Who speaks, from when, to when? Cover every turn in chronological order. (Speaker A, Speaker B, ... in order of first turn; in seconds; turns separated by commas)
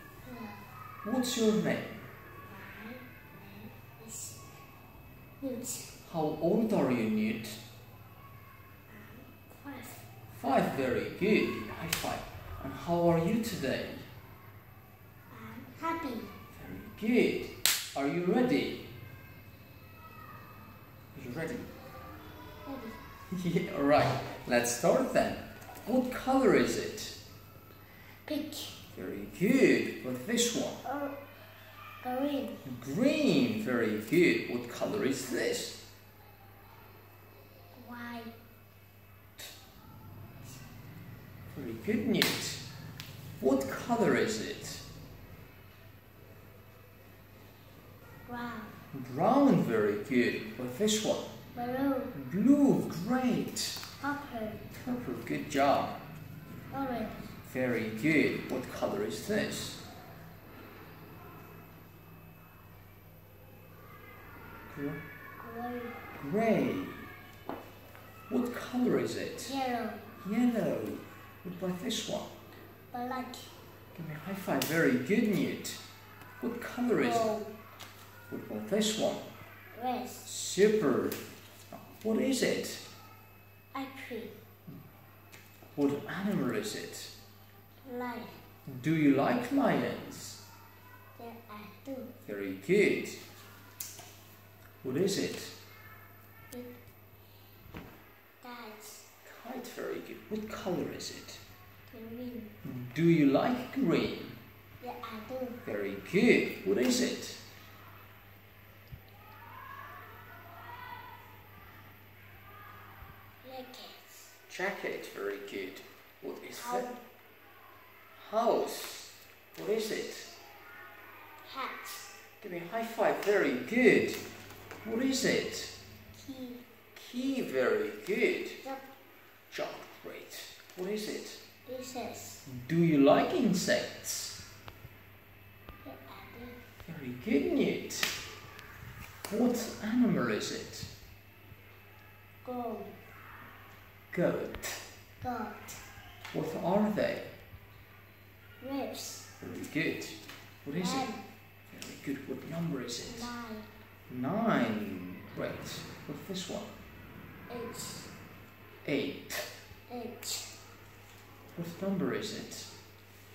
Speaker A: 0.2-0.7, Speaker B: 1.0-2.1, Speaker A: 2.5-4.5, Speaker A: 5.4-5.9, Speaker B: 6.0-7.6, Speaker A: 8.9-10.1, Speaker B: 10.3-14.1, Speaker A: 15.3-16.4, Speaker B: 16.5-18.9, Speaker B: 21.1-21.7, Speaker A: 22.6-23.0, Speaker B: 23.3-27.2, Speaker A: 28.2-28.8, Speaker B: 28.9-30.8, Speaker A: 30.8-31.2, Speaker A: 32.0-32.6, Speaker B: 32.6-35.8, Speaker A: 37.7-38.3, Speaker B: 41.5-42.6, Speaker B: 43.4-44.9, Speaker A: 48.3-48.7, Speaker B: 48.9-51.3, Speaker A: 51.5-52.1, Speaker B: 52.1-53.8, Speaker A: 54.0-54.6, Speaker B: 54.7-56.0, Speaker A: 56.7-57.3, Speaker B: 57.5-59.8, Speaker B: 64.7-65.0, Speaker A: 65.4-66.0, Speaker B: 66.2-67.1, Speaker B: 68.3-69.5, Speaker A: 69.4-70.1, Speaker B: 70.2-72.3, Speaker A: 72.9-73.5, Speaker B: 73.9-75.8, Speaker B: 76.4-77.3, Speaker A: 77.0-77.5, Speaker B: 78.3-79.3, Speaker A: 79.7-80.3, Speaker B: 80.2-81.2, Speaker B: 81.7-82.8, Speaker A: 83.7-84.4, Speaker B: 85.8-87.1, Speaker A: 87.8-88.4, Speaker B: 88.7-90.4, Speaker A: 91.2-92.1, Speaker B: 92.2-93.2, Speaker B: 94.8-95.6, Speaker A: 98.4-99.1, Speaker B: 99.2-101.4, Speaker A: 101.9-102.6, Speaker B: 102.6-104.4, Speaker A: 104.8-105.6, Speaker B: 105.7-107.4, Speaker A: 113.4-114.3, Speaker B: 114.5-116.9, Speaker A: 116.6-117.0, Speaker B: 118.2-120.3, Speaker A: 121.4-122.2, Speaker B: 122.4-124.2, Speaker B: 124.8-125.7, Speaker A: 126.1-126.6, Speaker B: 126.9-128.6, Speaker B: 129.5-131.4, Speaker A: 131.7-132.4, Speaker B: 132.5-134.4, Speaker A: 135.8-136.6, Speaker B: 136.8-138.2, Speaker B: 139.3-140.9, Speaker A: 142.4-143.0, Speaker B: 144.1-144.8, Speaker A: 145.2-145.8, Speaker B: 146.3-147.3, Speaker A: 148.6-149.3, Speaker B: 149.4-151.1, Speaker A: 150.7-151.3, Speaker B: 151.7-153.3, Speaker A: 153.0-153.7, Speaker B: 154.1-156.7, Speaker A: 157.5-158.1, Speaker B: 158.8-159.5, Speaker A: 159.9-160.5, Speaker B: 161.6-162.7